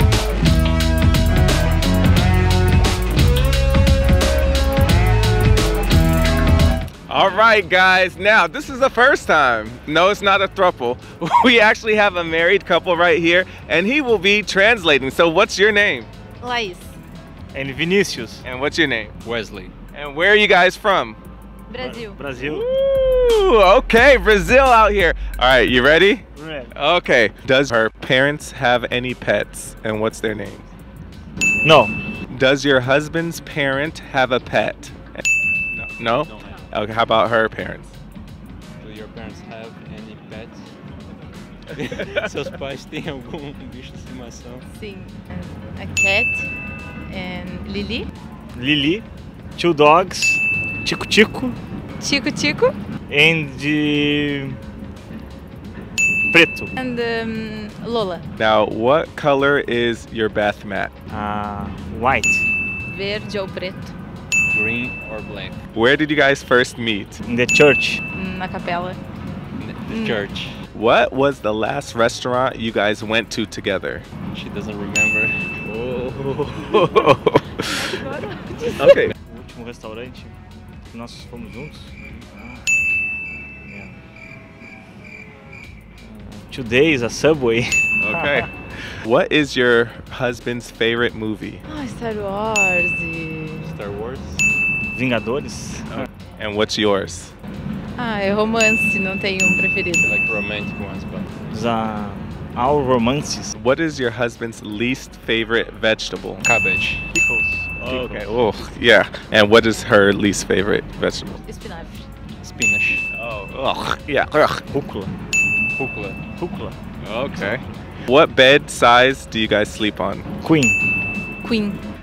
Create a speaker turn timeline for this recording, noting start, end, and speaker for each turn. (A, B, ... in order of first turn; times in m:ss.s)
0:07.1-0:16.1 A
0:16.4-0:16.9 B
0:17.5-0:18.4 C
0:18.4-0:19.2 A
0:19.2-0:19.7 D
0:19.9-0:21.2 A
0:21.7-0:22.2 B
0:21.8-0:22.6 C
0:22.4-0:30.7 A
0:26.4-0:26.7 C
0:31.6-0:31.9 C
0:32.3-0:37.9 A
0:36.2-0:36.6 D
0:38.8-0:40.7 D
0:41.7-0:44.7 D
0:44.7-0:46.5 B
0:47.1-0:48.1 B
0:48.5-0:51.6 C
0:52.0-0:52.7 B
0:53.1-0:54.6 C
0:56.3-0:56.7 C
0:56.8-0:58.3 B
0:58.4-1:00.9 A
1:01.1-1:02.4 C
1:02.9-1:03.9 B
1:04.5-1:05.6 D
1:05.7-1:07.2 A
1:07.2-1:08.0 C
1:08.1-1:09.0 B
1:09.6-1:10.6 D
1:09.9-1:10.2 B
1:10.7-1:14.0 A
1:14.3-1:15.5 D
1:15.6-1:17.8 A
1:17.7-1:19.0 B
1:18.8-1:19.1 A
1:19.2-1:20.4 C
1:20.9-1:22.7 C
1:23.6-1:24.0 C
1:26.0-1:28.5 C
1:28.0-1:31.6 A
1:31.7-1:33.8 B
1:33.6-1:34.4 D
1:34.9-1:36.1 C
1:35.9-1:37.3 A
1:38.0-1:40.2 B
1:40.0-1:41.3 D
1:41.5-1:43.5 C
1:43.5-1:46.4 A
1:46.4-1:47.1 D
1:47.1-1:48.5 C
1:47.8-1:51.4 A
1:51.4-1:52.1 B
1:52.4-1:53.0 D
1:53.1-1:54.6 A
1:54.7-1:55.1 C
1:55.8-1:56.2 D
1:56.4-1:56.7 C
1:57.0-1:57.6 D
1:57.1-2:00.3 A
2:00.4-2:00.8 C
2:01.4-2:01.8 B